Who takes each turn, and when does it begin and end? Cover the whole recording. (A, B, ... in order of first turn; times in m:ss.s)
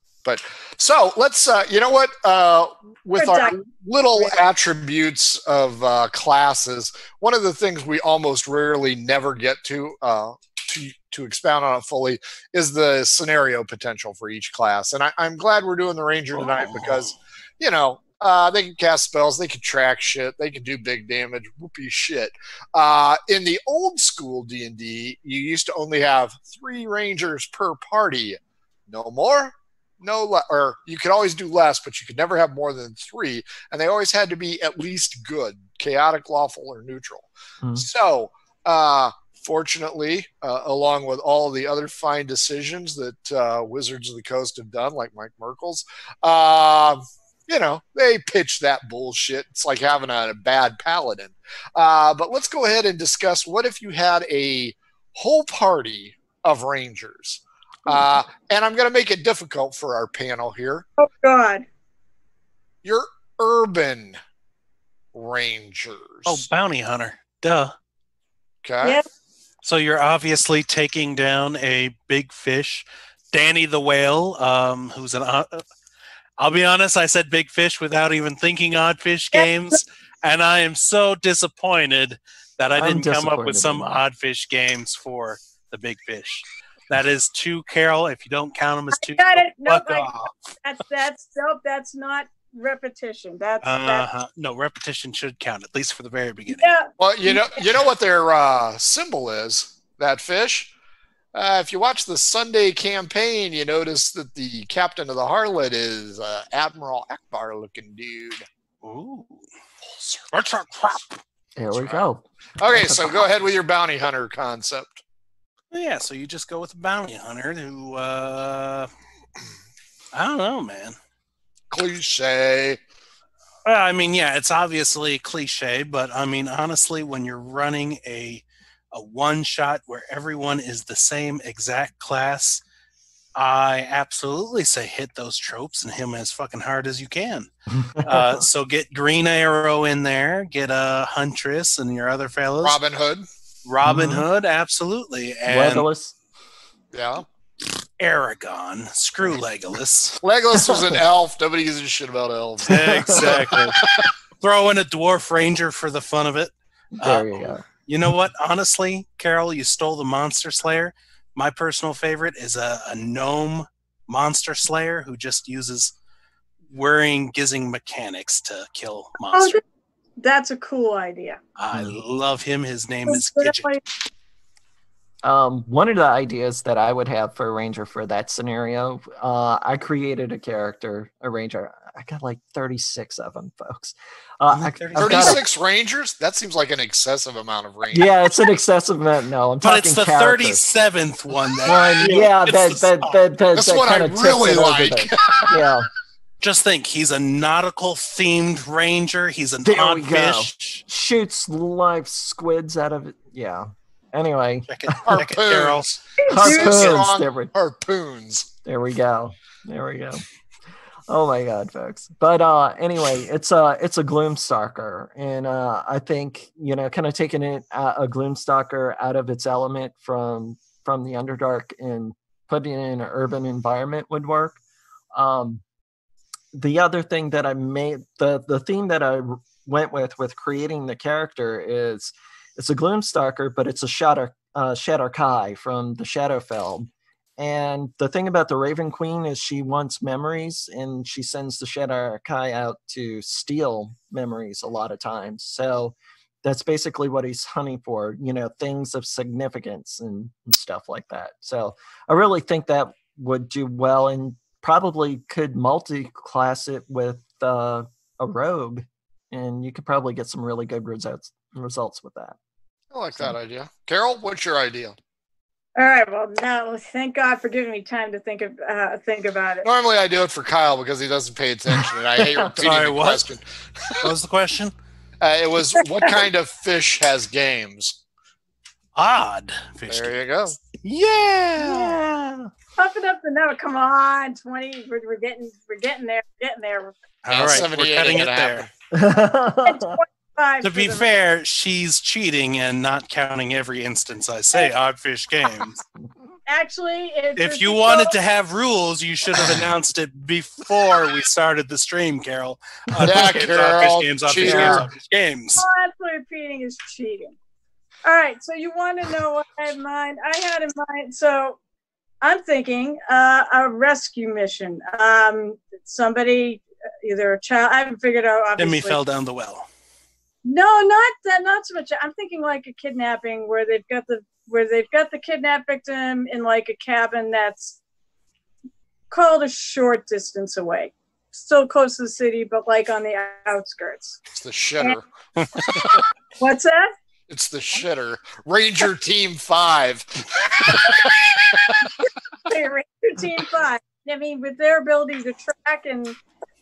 0:00.2-1:00.9 A
0:03.2-0:03.6 B
0:16.3-0:17.1 C
1:01.0-1:01.7 B
1:02.8-1:04.2 A
1:05.1-1:06.5 A
1:06.3-1:07.7 C
1:08.6-1:09.0 A
1:09.6-1:15.6 C
1:16.4-1:30.3 C
1:19.3-1:19.8 B
1:22.8-1:24.0 D
1:29.0-1:34.1 B
1:33.6-1:36.7 C
1:36.5-1:37.4 B
1:37.0-1:40.7 A
1:41.3-1:48.5 A
1:48.8-1:49.4 C
1:49.9-1:50.3 A
1:50.3-1:51.2 C
1:51.6-1:53.3 D
1:51.7-1:52.1 A
1:52.6-1:55.0 A
1:55.7-1:58.9 C
2:00.1-2:01.0 C
2:01.7-2:02.8 A
2:03.7-2:12.6 C
2:13.4-2:22.8 C
2:17.8-2:18.4 D
2:22.6-2:23.3 A
2:23.7-2:25.9 C
2:23.8-2:24.3 D
2:25.5-2:26.2 D
2:26.9-2:27.2 A
2:28.0-2:30.2 C
2:30.2-2:34.1 A
2:30.6-2:31.0 D
2:32.6-2:33.9 C
2:32.7-2:33.6 D
2:34.4-2:45.9 C
2:37.0-2:37.6 D
2:46.7-2:49.6 C
2:49.3-2:49.6 B
2:50.2-2:51.4 B
2:51.6-2:53.8 C
2:51.7-2:52.0 D
2:53.1-2:53.8 B
2:55.2-3:05.4 D
3:04.5-3:05.4 C
3:05.0-3:08.1 A
3:07.9-3:10.7 D
3:09.6-3:13.2 C
3:11.6-3:15.9 D
3:13.6-3:15.6 A
3:16.4-3:20.8 C
3:19.6-3:25.1 D
3:24.7-3:26.0 C
3:25.1-3:28.5 A
3:26.2-3:26.9 B
3:26.3-3:27.5 D
3:28.6-3:30.2 D
3:31.1-3:44.6 D
3:45.1-3:45.6 D
3:46.5-4:22.4 D
4:22.9-4:25.0 A
4:25.8-4:29.7 B
4:29.6-4:34.1 A
4:32.2-4:32.6 D
4:32.3-4:33.2 C
4:34.0-4:34.7 C
4:35.2-4:38.0 A
4:39.0-4:42.0 C
4:39.9-4:40.6 A
4:41.6-4:42.5 D
4:42.8-4:47.0 B
4:47.2-4:48.7 C
4:47.3-4:48.7 A
4:48.9-4:50.0 D
4:49.6-4:51.1 B
4:50.6-4:55.8 C
4:56.5-4:58.2 B
4:57.4-5:05.6 C
5:03.0-5:03.3 D
5:03.0-5:04.9 A
5:04.4-5:04.9 D
5:05.6-5:07.4 B
5:08.0-5:11.6 B
5:12.2-5:19.0 B
5:18.6-5:19.7 C
5:20.4-5:27.8 B
5:29.1-5:34.2 B
5:34.3-5:35.1 A
5:35.6-5:36.0 A
5:36.4-5:36.9 B
5:37.3-5:41.9 A
5:42.5-5:46.2 B